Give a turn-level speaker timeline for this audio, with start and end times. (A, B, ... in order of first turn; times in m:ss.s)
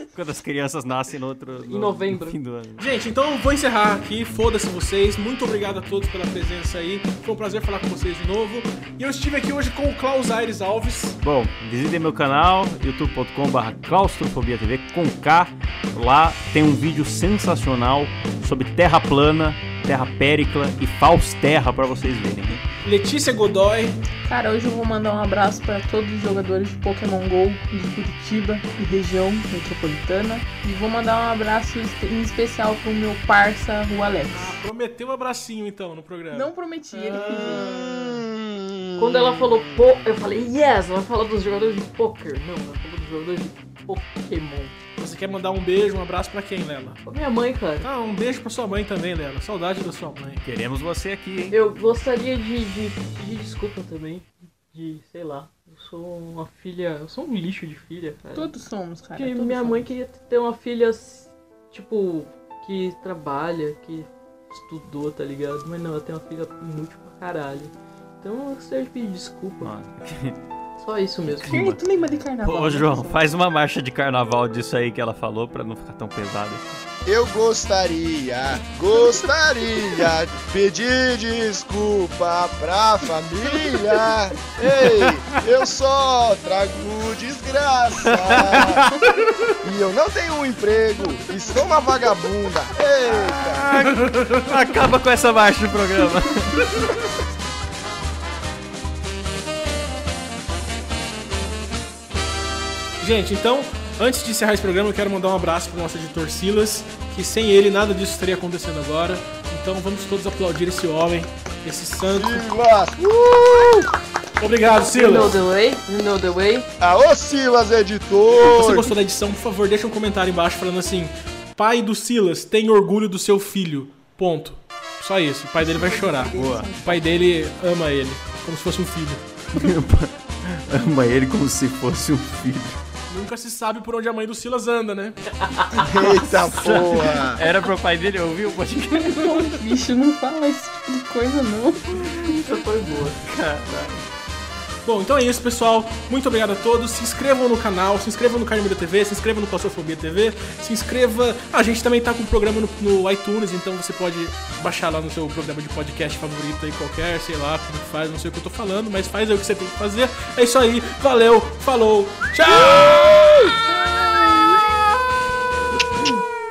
0:00.1-0:02.9 A
0:01.7-0:02.4 B
0:02.8-0:11.2 C
0:11.2-0:22.6 A
0:22.8-0:24.0 C
0:24.2-0:34.5 D
0:34.3-0:36.5 C
0:36.3-0:38.0 D
0:37.1-0:40.0 E
0:39.0-0:44.8 B
0:45.0-0:47.0 C
0:47.0-0:47.9 B
0:47.8-0:50.4 C
0:50.4-0:51.6 A
0:51.5-0:58.5 B
0:58.4-0:59.9 D
0:59.2-1:09.8 B
1:09.6-1:10.4 A
1:10.8-1:11.8 B
1:11.4-1:13.2 D
1:12.4-1:16.7 A
1:17.1-1:29.0 E
1:28.2-1:29.1 A
1:29.6-1:33.7 E
1:33.0-1:37.0 A
1:33.8-1:34.4 C
1:43.0-1:52.5 C
1:52.1-1:53.9 E
1:54.4-1:55.4 C
1:54.9-1:56.7 B
1:56.8-1:58.9 E
1:58.4-2:09.3 C
2:05.7-2:07.1 D
2:06.3-2:06.7 A
2:09.5-2:12.8 A
2:13.1-2:15.2 C
2:15.8-2:17.4 E
2:16.2-2:19.6 A
2:19.1-2:22.3 D
2:22.1-2:24.1 A
2:22.5-2:23.2 B
2:24.8-2:43.3 C
2:42.6-2:43.5 E
2:43.7-2:44.7 D